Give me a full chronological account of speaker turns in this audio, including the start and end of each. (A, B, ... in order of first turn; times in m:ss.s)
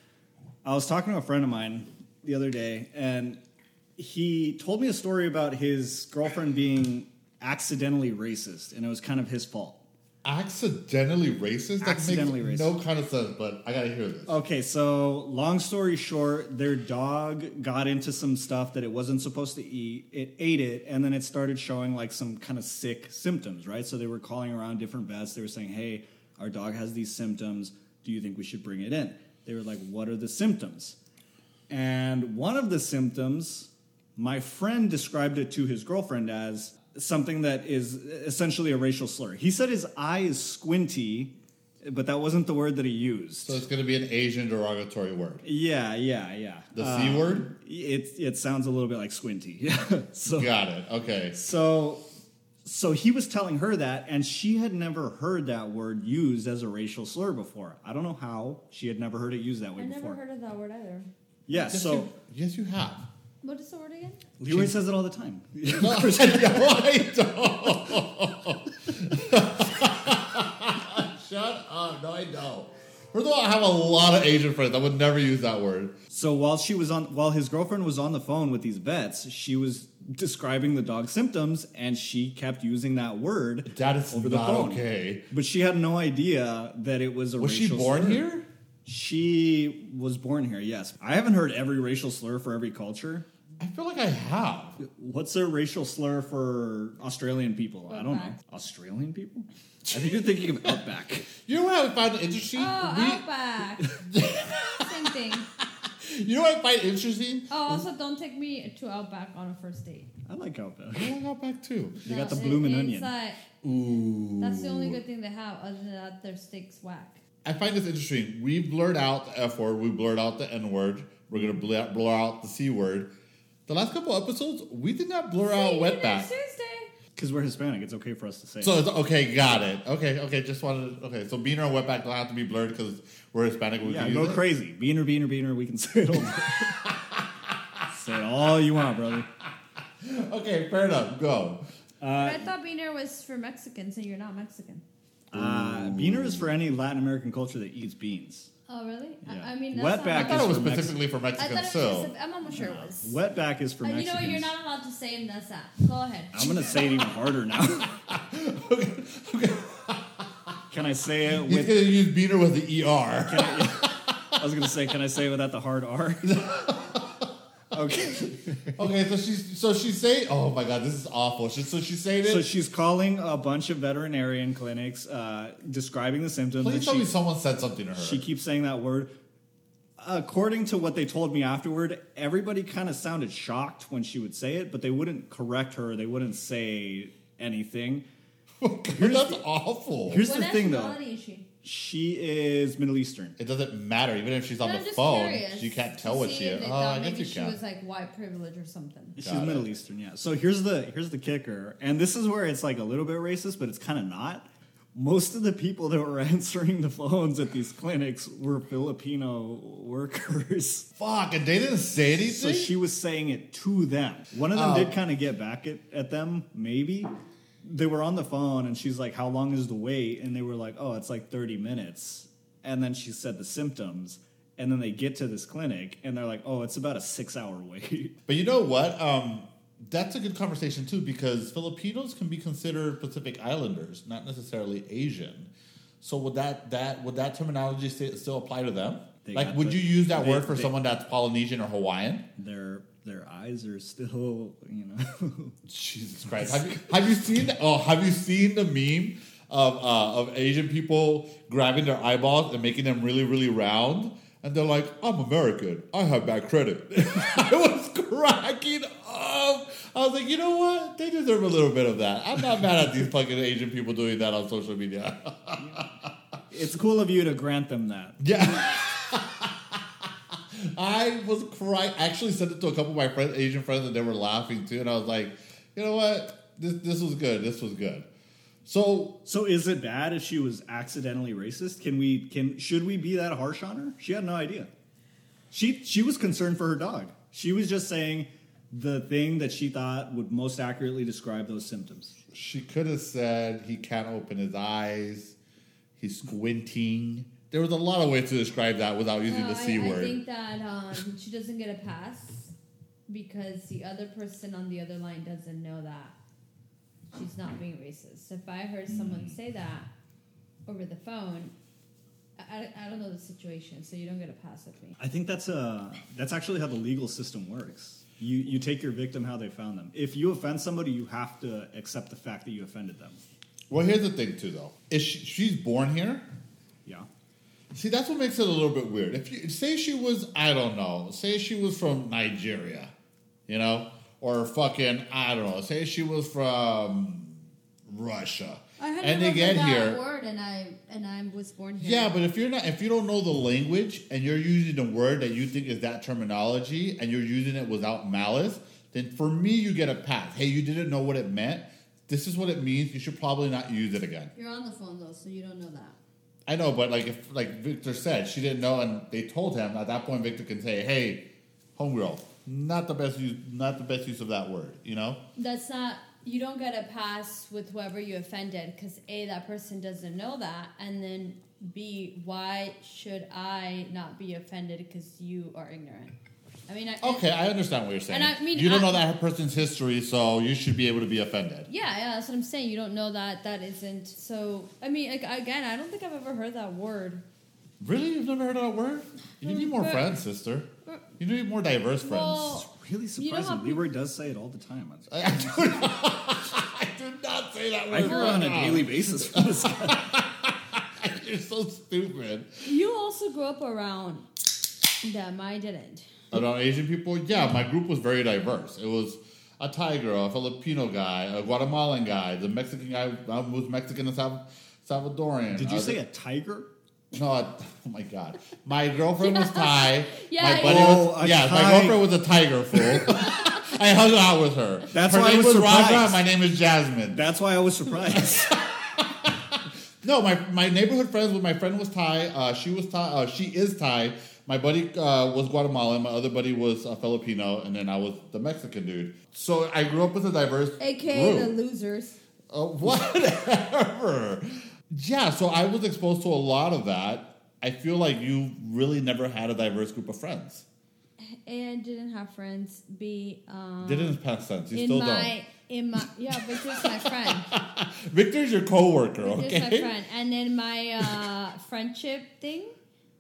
0:00.6-0:03.4 A
0:04.0-0:09.8 A
0:10.2-0:14.4 B
0:11.8-0:12.8 A
0:14.3-0:31.0 A
0:31.7-0:43.6 A
0:43.4-0:45.4 B
0:45.4-0:50.5 A
0:46.8-0:47.5 B
0:50.4-0:51.4 B
0:51.3-0:52.0 A
0:52.6-1:00.2 A
0:59.8-1:01.1 C
1:01.5-1:02.1 A
1:01.5-1:03.1 B
1:03.4-1:04.2 C
1:04.4-1:06.8 A
1:04.5-1:04.8 B
1:05.7-1:16.0 B
1:16.1-1:28.2 A
1:23.7-1:25.3 B
1:27.4-1:28.5 B
1:28.8-1:33.3 A
1:33.6-1:34.8 B
1:34.8-1:41.3 A
1:37.9-1:38.4 C
1:39.9-1:40.7 B
1:41.4-1:43.2 B
1:42.5-1:45.5 C
1:44.0-1:47.9 B
1:47.5-1:50.1 C
1:50.3-1:51.2 A
1:51.0-1:52.5 B
1:52.0-1:53.1 A
1:52.0-1:53.4 C
1:53.6-1:55.0 B
1:54.4-1:57.2 C
1:57.4-2:03.1 B
2:03.7-2:06.3 B
2:05.4-2:06.9 C
2:07.2-2:08.8 A
2:08.6-2:14.4 B
2:13.8-2:16.8 A
2:16.2-2:17.8 B
2:17.9-2:19.3 A
2:20.0-2:21.6 B
2:22.0-2:22.5 A
2:22.2-2:24.8 C
2:25.3-2:28.5 A
2:25.3-2:26.5 B
2:28.7-2:30.8 C
2:29.2-2:31.0 A
2:30.1-2:32.8 B
2:31.4-2:33.2 C
2:32.8-2:34.5 A
2:33.8-2:37.2 C
2:36.3-2:37.9 A
2:37.8-2:40.5 B
2:40.7-2:41.7 A
2:41.3-2:44.3 B
2:43.3-2:46.5 A
2:46.3-2:47.2 B
2:47.7-2:48.8 A
2:48.8-2:52.5 B
2:52.2-2:57.1 A
2:56.6-2:58.2 B
2:58.0-2:59.1 A
3:00.0-3:08.0 A
3:08.6-3:10.3 B
3:09.0-3:09.4 A
3:10.1-3:11.0 A
3:10.2-3:11.5 C
3:11.6-3:13.4 A
3:13.4-3:17.6 B
3:14.6-3:19.2 C
3:19.2-3:30.9 A
3:19.2-3:19.7 B
3:31.0-3:32.7 B
3:32.2-3:37.1 A
3:34.5-3:35.0 B
3:37.6-3:48.2 A
3:48.3-3:55.5 B
3:56.0-4:02.3 B
3:59.2-4:00.7 A
4:02.4-4:05.6 A
4:05.7-4:26.1 B
4:26.5-4:28.2 A
4:28.2-4:38.1 B
4:38.6-4:39.2 B
4:39.2-4:44.7 A
4:45.5-4:52.2 A
4:52.3-4:55.4 B
4:56.0-5:00.2 B
4:59.3-5:02.5 C
5:03.1-5:06.2 C
5:07.1-5:09.9 C
5:08.9-5:09.4 A
5:10.7-5:11.5 C
5:12.4-5:15.0 C
5:15.0-5:23.2 A
5:23.7-5:26.2 B
5:27.7-5:32.9 B
5:33.5-5:40.0 B
5:38.8-5:42.2 C
5:41.8-5:54.3 B
5:54.4-5:56.0 C
5:56.5-6:01.2 B
6:01.8-6:05.2 B
6:05.4-6:16.1 C
6:16.7-6:17.2 C
6:17.0-6:21.7 B
6:18.1-6:19.0 C
6:21.7-6:27.2 C
6:27.8-6:32.6 B
6:29.4-6:30.1 C
6:32.0-6:33.8 C
6:32.5-6:35.2 A
6:35.1-6:42.6 B
6:37.9-6:40.0 A
6:38.1-6:38.5 C
6:42.6-6:44.3 C
6:45.0-6:46.3 C
6:46.3-6:56.0 B
6:55.5-6:56.7 A
6:57.1-7:07.2 B
6:59.2-7:01.0 C
7:00.6-7:02.0 A
7:03.1-7:03.6 C
7:04.9-7:06.2 A
7:07.1-7:08.5 A
7:08.1-7:21.6 B
7:20.8-7:22.2 C
7:22.5-7:30.7 B
7:31.2-7:34.2 C
7:33.8-7:35.3 B
7:34.7-7:37.5 C
7:36.4-7:39.9 B
7:39.2-7:42.8 C